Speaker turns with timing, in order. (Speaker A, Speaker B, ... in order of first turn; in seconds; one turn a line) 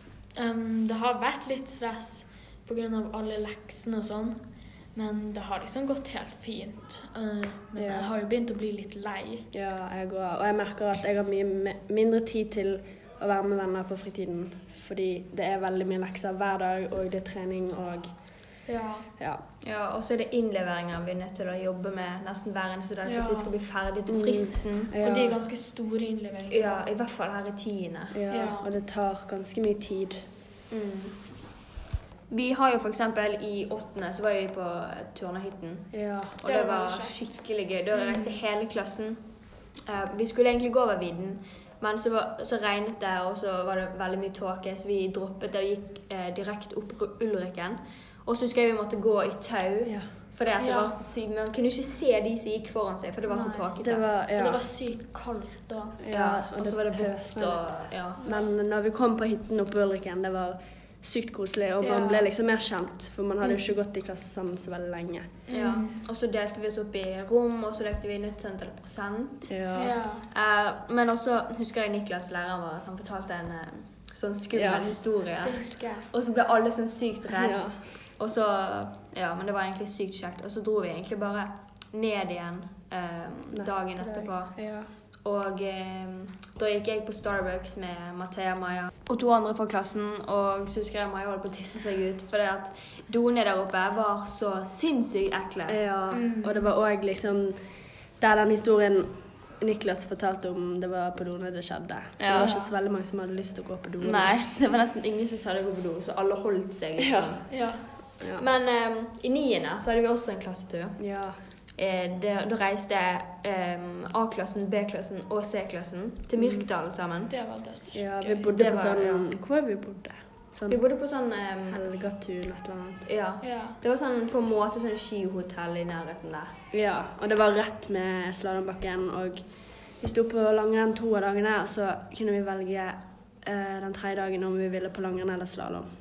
Speaker A: 0.3-9.5
Speaker B: 7.8-8.1
Speaker B: 9.5-18.6
Speaker A: 18.6-19.1
Speaker B: 19.2-19.4
Speaker C: 19.6-25.0
Speaker A: 23.0-23.6
Speaker B: 24.1-25.4
Speaker A: 24.9-26.9
Speaker C: 26.5-28.2
Speaker B: 28.1-30.3
Speaker A: 28.3-28.7
Speaker C: 30.7-31.4
Speaker C: 32.3-54.1
Speaker B: 35.9-36.4
Speaker A: 36.4-38.4
Speaker B: 49.8-50.1
Speaker A: 50.6-51.0
Speaker A: 53.3-56.0
Speaker B: 53.8-54.7
Speaker B: 56.0-65.3
Speaker C: 56.1-58.2
Speaker A: 58.2-58.5
Speaker A: 61.8-62.3
Speaker A: 65.5-66.0
Speaker C: 65.5-95.9
Speaker B: 69.5-70.0
Speaker A: 69.7-70.2
Speaker B: 74.5-75.0
Speaker A: 75.4-76.1
Speaker B: 77.4-77.8
Speaker B: 83.5-84.9
Speaker B: 95.7-104.4
Speaker A: 96.1-96.7
Speaker C: 102.2-102.6
Speaker A: 102.3-102.7
Speaker C: 104.0-117.5
Speaker B: 107.0-108.4
Speaker A: 107.5-107.9
Speaker B: 111.0-111.4
Speaker B: 116.3-116.7
Speaker A: 117.3-118.5
Speaker B: 117.9-123.1
Speaker C: 118.5-119.3
Speaker C: 120.7-121.9
Speaker C: 123.0-126.5
Speaker A: 123.4-123.8
Speaker B: 126.7-135.9